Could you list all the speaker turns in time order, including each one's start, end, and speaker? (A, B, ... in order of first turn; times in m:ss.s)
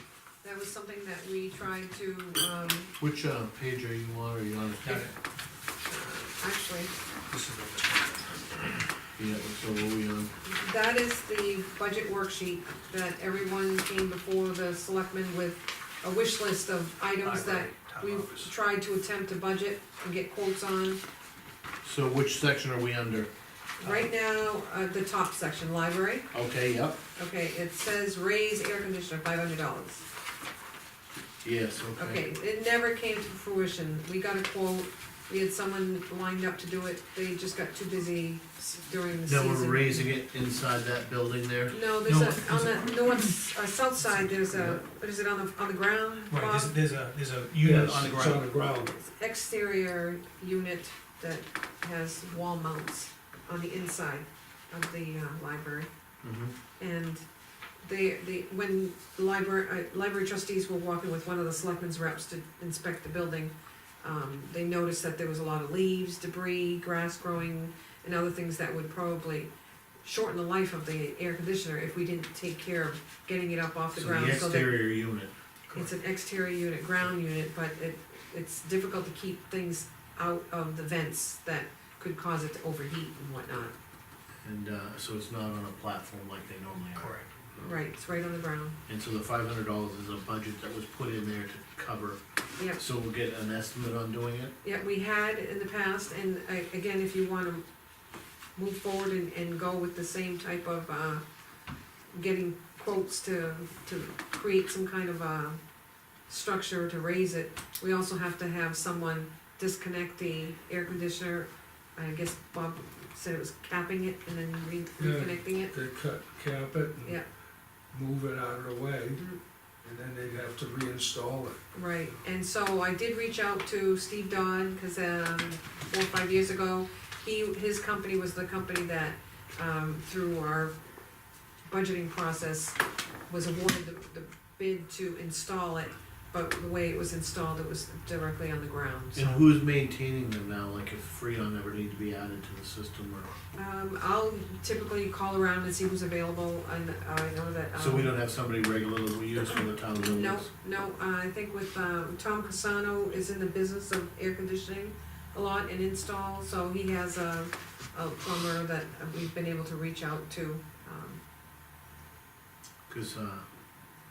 0:00.4-0:02.9 A
0:03.0-0:05.1 B
0:04.8-0:05.1 C
0:05.8-0:06.9 A
0:07.3-0:08.4 C
0:09.2-0:10.3 B
0:10.4-0:21.0 A
0:17.2-0:18.5 C
0:21.8-0:23.3 B
0:23.8-0:26.3 A
0:23.8-0:24.1 C
0:26.3-0:27.0 B
0:27.2-0:30.0 A
0:31.4-0:32.2 B
0:32.0-0:40.2 A
0:39.2-0:41.7 B
0:41.7-0:46.7 A
0:42.0-0:43.3 C
0:44.5-0:44.8 B
0:46.3-0:48.4 C
0:47.6-0:48.9 D
0:48.9-0:55.9 A
0:56.2-0:56.5 B
0:56.8-0:57.2 A
0:57.8-1:09.5 A
1:10.0-1:14.8 A
1:13.9-1:15.3 B
1:15.7-1:23.7 A
1:24.4-1:27.7 B
1:27.0-1:27.3 C
1:27.6-1:28.8 A
1:28.9-1:32.2 B
1:32.7-1:34.5 B
1:34.6-1:37.6 A
1:38.6-1:41.2 A
1:42.1-1:45.6 A
1:46.3-1:55.7 A
1:55.0-1:57.2 D
1:57.9-1:59.2 D
1:59.8-2:01.6 D
2:01.7-2:10.7 A
2:11.6-2:12.8 A
2:13.3-2:19.3 A
2:19.1-2:23.3 B
2:23.5-2:28.1 A
2:27.8-2:30.5 B
2:29.9-2:41.2 A
2:42.9-2:43.4 B